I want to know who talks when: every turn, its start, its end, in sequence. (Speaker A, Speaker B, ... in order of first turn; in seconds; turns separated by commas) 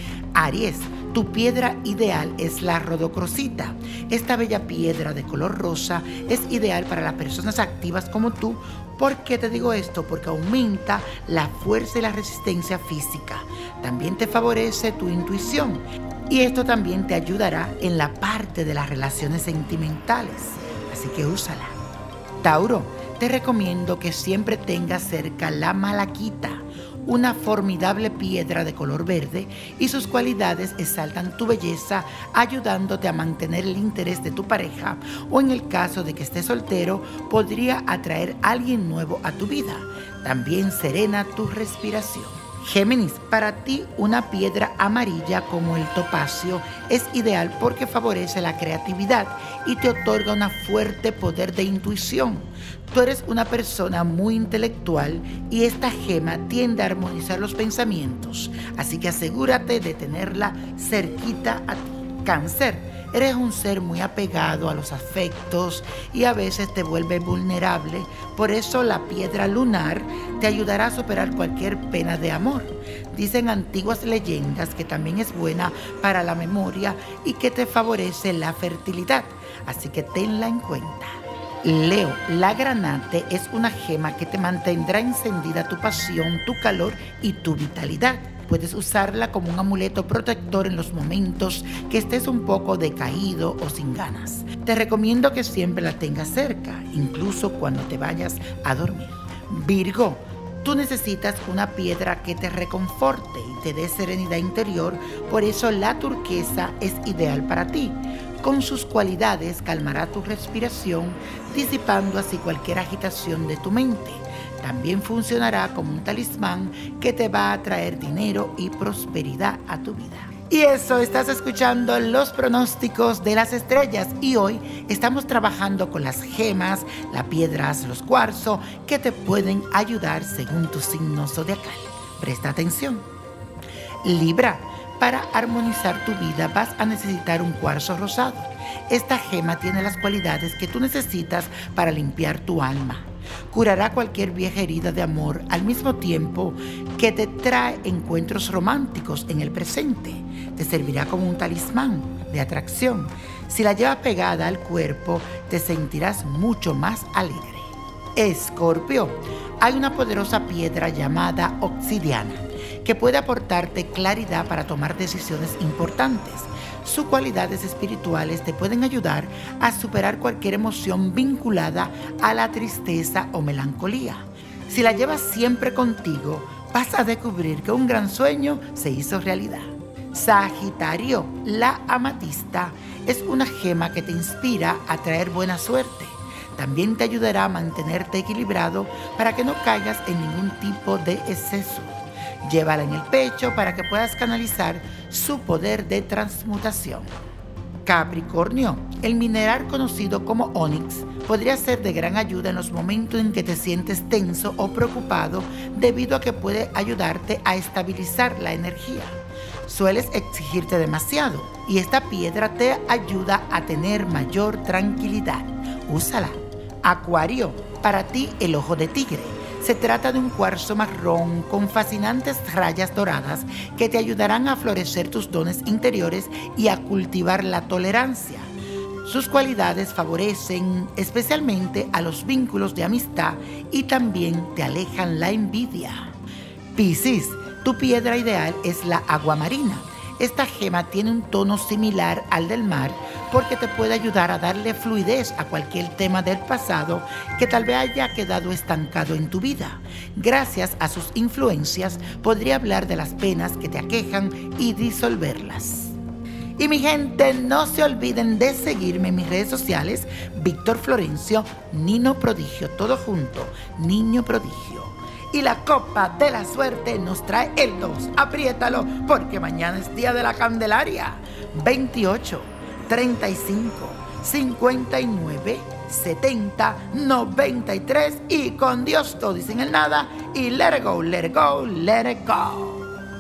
Speaker A: 0.4-21.8, Speaker A: 22.4-133.1, Speaker A: 134.0-197.1, Speaker A: 197.9-228.5, Speaker A: 229.0-236.1, Speaker A: 236.8-256.0, Speaker A: 256.6-282.8